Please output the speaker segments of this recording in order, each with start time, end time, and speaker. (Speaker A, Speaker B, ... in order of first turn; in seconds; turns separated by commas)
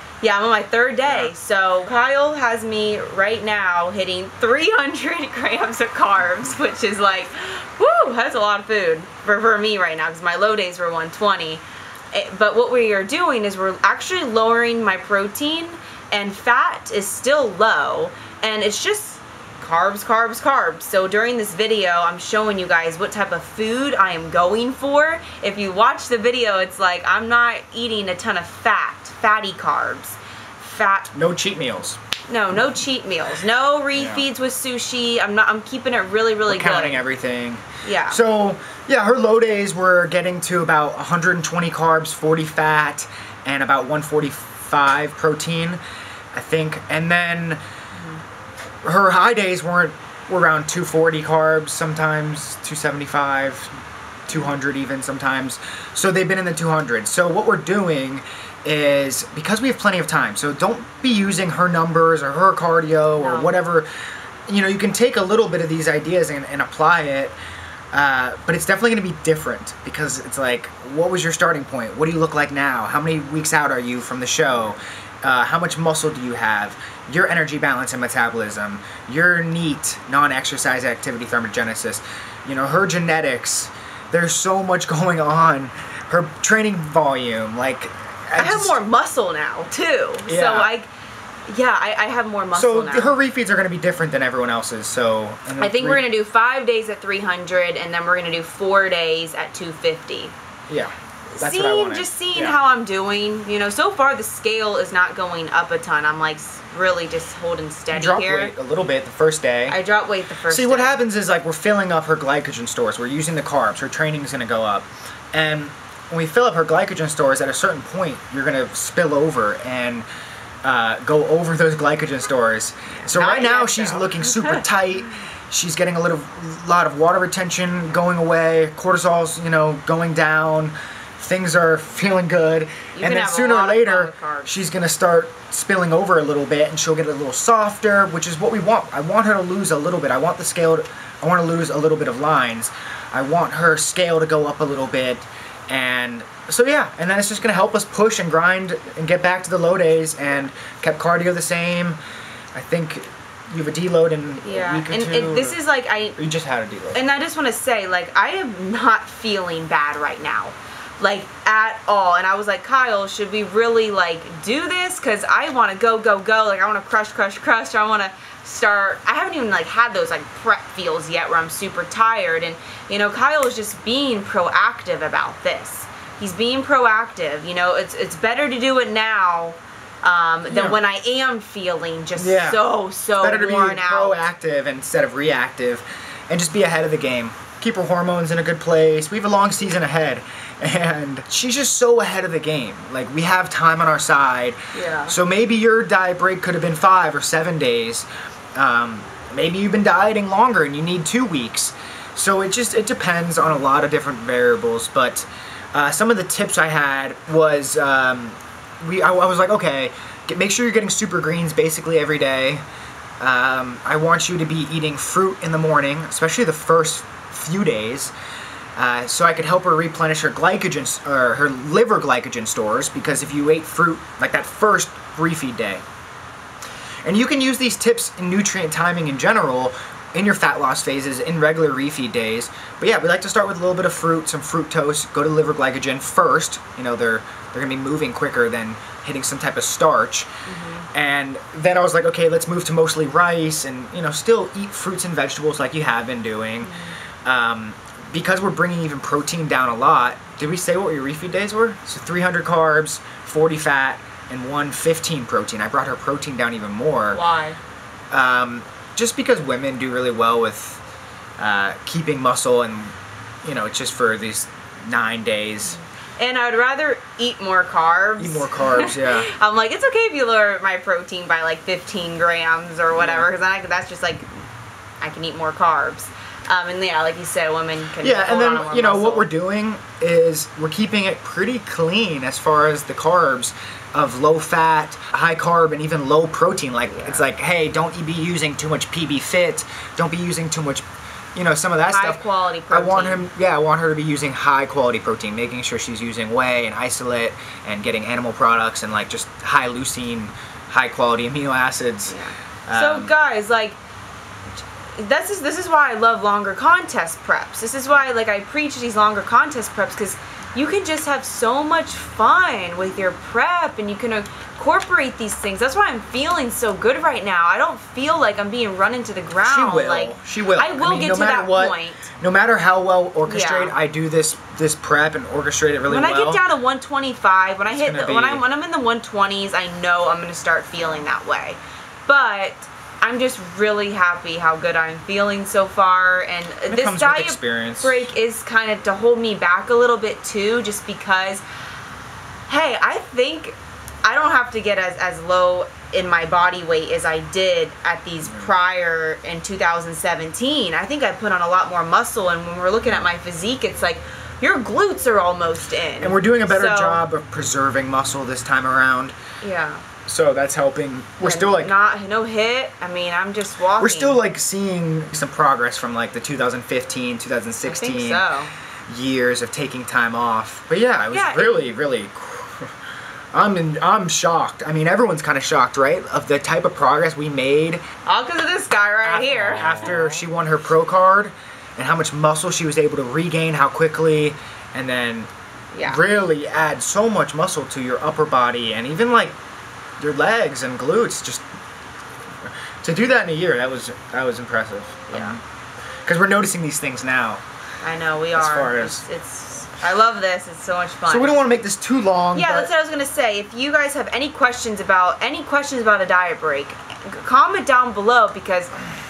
Speaker A: 0.2-31.1, Speaker B: 1.1-1.3, Speaker B: 31.1-32.0, Speaker A: 32.3-37.0, Speaker B: 33.9-34.2, Speaker B: 36.5-45.8, Speaker A: 37.8-38.2, Speaker B: 46.3-47.6, Speaker B: 48.8-53.7, Speaker B: 54.3-63.9, Speaker A: 63.1-63.5, Speaker B: 64.5-67.3, Speaker B: 67.9-88.8, Speaker A: 88.3-90.9, Speaker B: 90.3-90.7, Speaker A: 91.5-93.1, Speaker B: 92.5-96.0, Speaker A: 95.6-100.3, Speaker B: 100.7-102.5, Speaker A: 101.3-108.5, Speaker B: 107.9-109.8, Speaker A: 109.7-111.0, Speaker B: 110.5-120.0, Speaker B: 120.6-152.0, Speaker A: 122.9-124.6, Speaker A: 132.9-134.6, Speaker B: 152.5-155.6, Speaker A: 154.4-156.2, Speaker B: 156.2-157.0, Speaker A: 156.9-184.2, Speaker B: 180.5-180.8, Speaker B: 182.2-182.6, Speaker B: 183.2-212.6, Speaker A: 194.7-195.2, Speaker B: 213.2-218.1, Speaker B: 218.8-225.8, Speaker B: 227.0-240.3, Speaker A: 240.5-240.9, Speaker B: 240.9-257.2, Speaker A: 246.6-247.0, Speaker A: 257.1-257.6, Speaker B: 258.1-260.8, Speaker B: 261.4-265.8, Speaker A: 265.7-274.3, Speaker B: 268.2-269.3, Speaker B: 272.9-273.3, Speaker A: 275.0-279.3, Speaker B: 278.0-302.1, Speaker A: 286.9-287.2, Speaker A: 291.9-293.2, Speaker A: 302.1-303.8, Speaker B: 302.7-303.1, Speaker A: 304.9-322.1, Speaker B: 319.4-326.4, Speaker A: 323.2-323.8, Speaker A: 325.9-341.4, Speaker B: 327.7-328.4, Speaker B: 336.7-338.0, Speaker A: 342.5-357.1, Speaker B: 356.0-359.1, Speaker A: 359.4-359.8, Speaker B: 360.1-361.7, Speaker A: 361.2-364.2, Speaker B: 363.8-368.2, Speaker A: 367.6-368.5, Speaker B: 368.9-372.7, Speaker A: 371.1-371.7, Speaker B: 373.3-377.8, Speaker A: 378.1-379.9, Speaker B: 379.0-385.3, Speaker A: 385.7-386.0, Speaker B: 385.8-389.4, Speaker B: 390.0-391.4, Speaker B: 392.4-395.4, Speaker A: 395.1-395.4, Speaker B: 396.1-397.4, Speaker A: 397.8-401.4, Speaker B: 398.3-399.0, Speaker B: 401.1-402.7, Speaker A: 402.3-408.8